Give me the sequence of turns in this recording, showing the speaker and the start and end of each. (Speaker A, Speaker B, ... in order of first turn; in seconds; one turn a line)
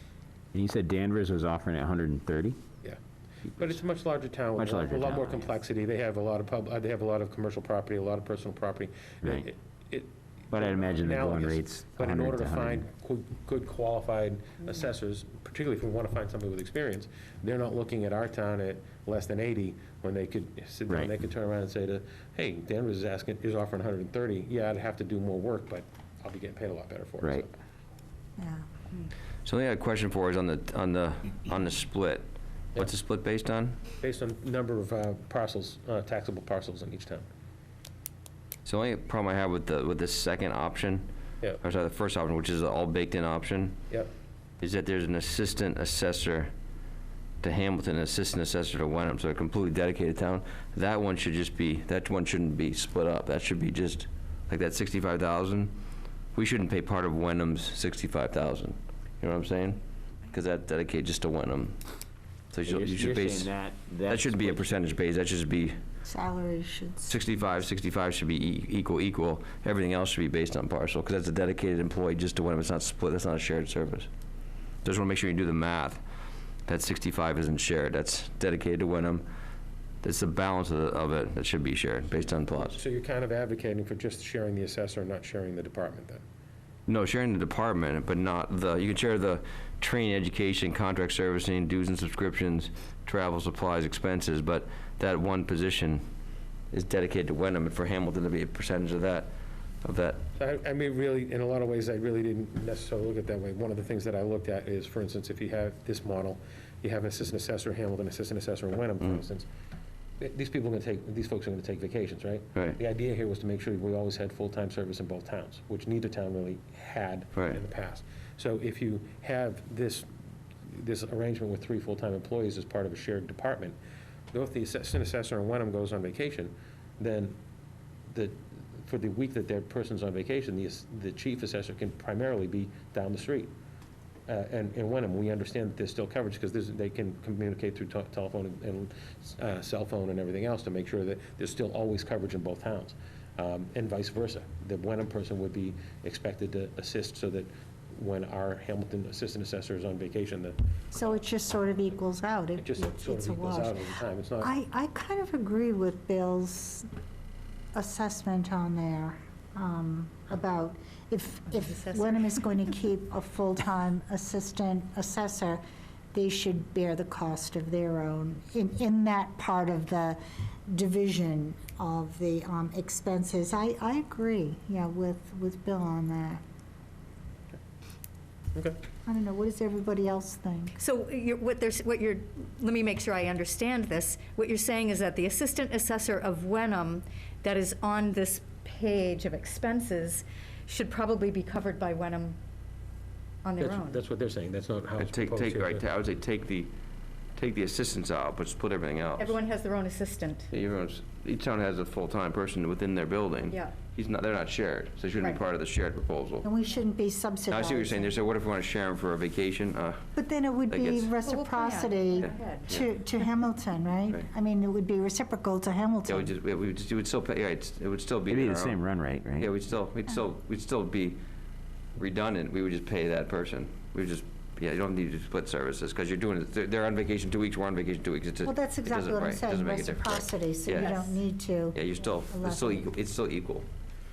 Speaker A: 0.5-2.6
Speaker B: 3.5-27.6
Speaker A: 4.5-5.5
Speaker A: 9.2-9.5
Speaker A: 10.5-12.8
Speaker C: 28.4-28.6
Speaker D: 29.4-33.8
Speaker B: 34.0-37.2
Speaker D: 38.6-41.1
Speaker D: 41.6-43.8
Speaker D: 44.6-46.5
Speaker D: 47.4-55.7
Speaker D: 56.3-61.8
Speaker D: 62.5-63.5
Speaker A: 62.6-64.7
Speaker D: 64.0-65.8
Speaker C: 66.0-67.2
Speaker D: 67.0-74.1
Speaker D: 74.8-76.0
Speaker D: 76.7-79.2
Speaker D: 80.0-82.8
Speaker B: 82.6-86.2
Speaker D: 86.9-96.0
Speaker D: 96.7-99.3
Speaker D: 99.8-100.2
Speaker B: 100.4-109.5
Speaker B: 110.2-120.1
Speaker B: 120.7-123.8
Speaker B: 124.3-127.3
Speaker B: 128.1-133.5
Speaker B: 134.3-150.6
Speaker C: 150.9-153.9
Speaker B: 152.6-154.5
Speaker C: 154.4-156.9
Speaker C: 157.7-165.6
Speaker E: 161.5-162.4
Speaker C: 166.1-176.4
Speaker C: 179.0-180.8
Speaker E: 180.8-192.4
Speaker E: 193.4-194.0
Speaker B: 193.6-195.8
Speaker D: 195.0-196.7
Speaker D: 197.3-199.4
Speaker E: 199.2-200.5
Speaker D: 200.5-206.4
Speaker C: 206.4-208.1
Speaker D: 207.5-210.1
Speaker C: 210.1-216.3
Speaker D: 210.7-211.1
Speaker E: 211.2-212.8
Speaker D: 212.2-212.8
Speaker D: 216.1-218.8
Speaker A: 218.3-219.5
Speaker D: 219.4-221.2
Speaker D: 221.9-231.0
Speaker C: 228.4-232.9
Speaker E: 230.7-231.2
Speaker D: 231.7-233.7